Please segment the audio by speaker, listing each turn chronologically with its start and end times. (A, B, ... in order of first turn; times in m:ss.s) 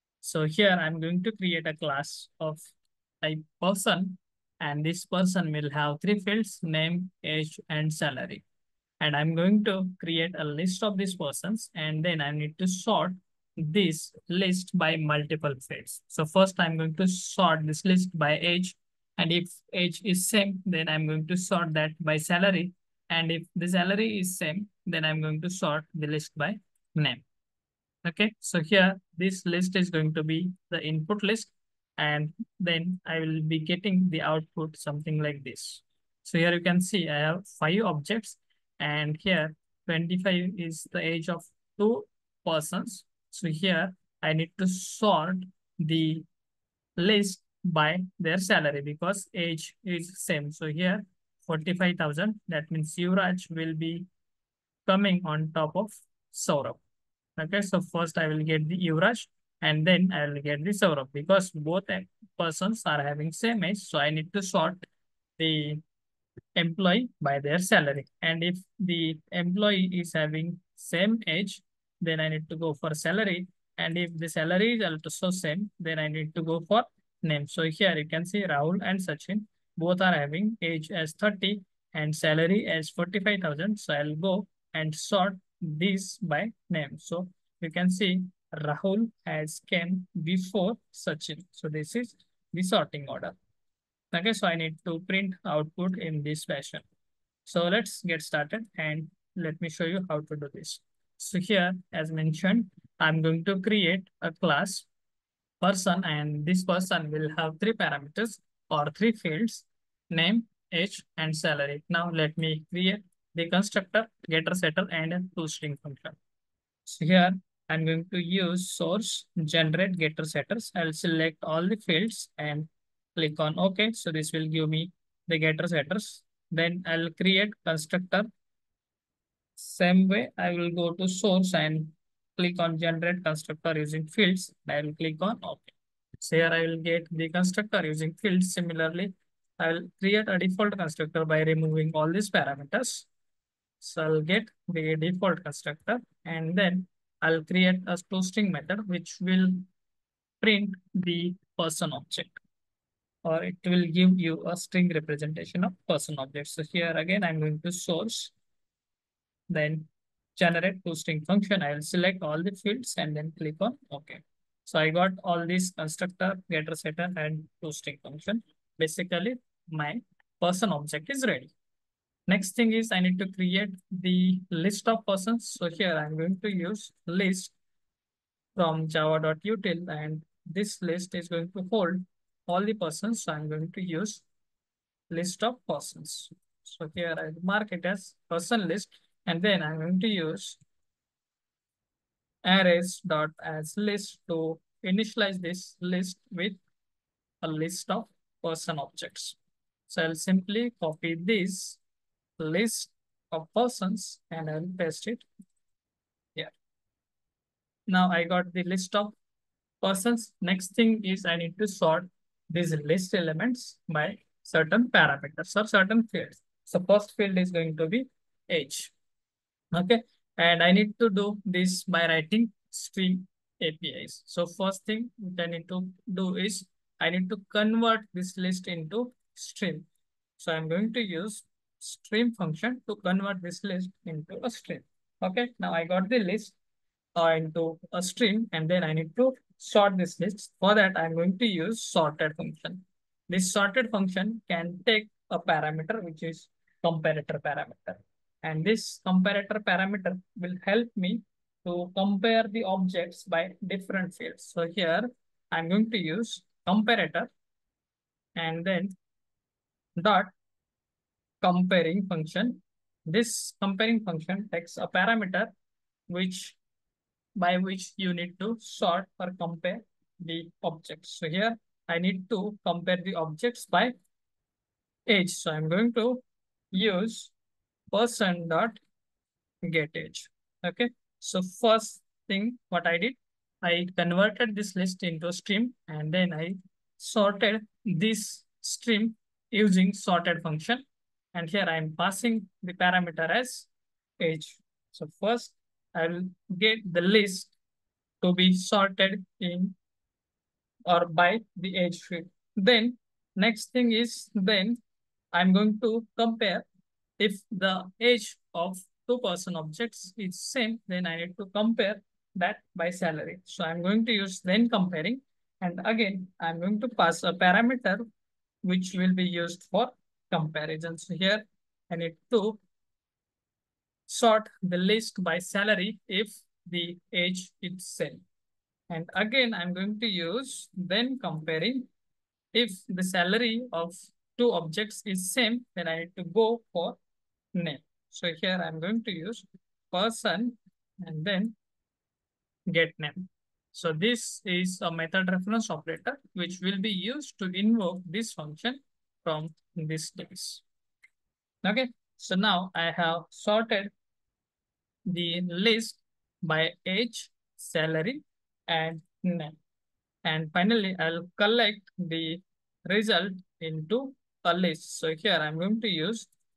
0:00.2-0:08.4 A
0:09.0-0:27.2 A
0:28.0-0:46.3 A
0:47.0-0:54.1 A
0:54.8-0:56.8 A
0:57.4-1:04.9 A
1:05.4-1:05.8 A
1:06.6-1:33.4 A
1:34.1-1:36.8 A
1:37.4-1:44.9 A
1:45.6-1:56.2 A
1:56.8-2:08.3 A
2:09.6-2:23.1 A
2:23.8-2:29.6 A
2:30.4-2:32.4 A
2:33.2-2:38.3 A
2:39.5-2:51.5 A
2:52.3-2:57.5 A
2:58.5-3:04.2 A
3:05.1-3:10.6 A
3:12.4-3:16.6 A
3:17.4-3:19.4 A
3:19.9-3:21.8 A
3:22.4-3:25.2 A
3:27.9-3:29.1 A
3:29.8-3:38.9 A
3:39.7-3:49.8 A
3:50.4-3:56.6 A
3:57.1-4:17.3 A
4:18.4-4:18.9 A
4:20.0-4:20.3 A
4:21.4-4:25.5 A
4:26.1-4:26.6 A
4:27.4-4:33.9 A
4:35.1-4:37.3 A
4:37.9-4:38.8 A
4:39.6-4:57.5 A
4:58.2-4:59.8 A
5:00.8-5:04.8 A
5:05.3-5:06.6 A
5:07.2-5:18.0 A
5:18.6-5:22.6 A
5:24.1-5:28.2 A
5:28.9-5:31.9 A
5:32.5-5:37.0 A
5:37.5-5:41.5 A
5:42.7-5:50.6 A
5:51.6-5:53.9 A
5:55.1-5:59.6 A
6:00.2-6:06.3 A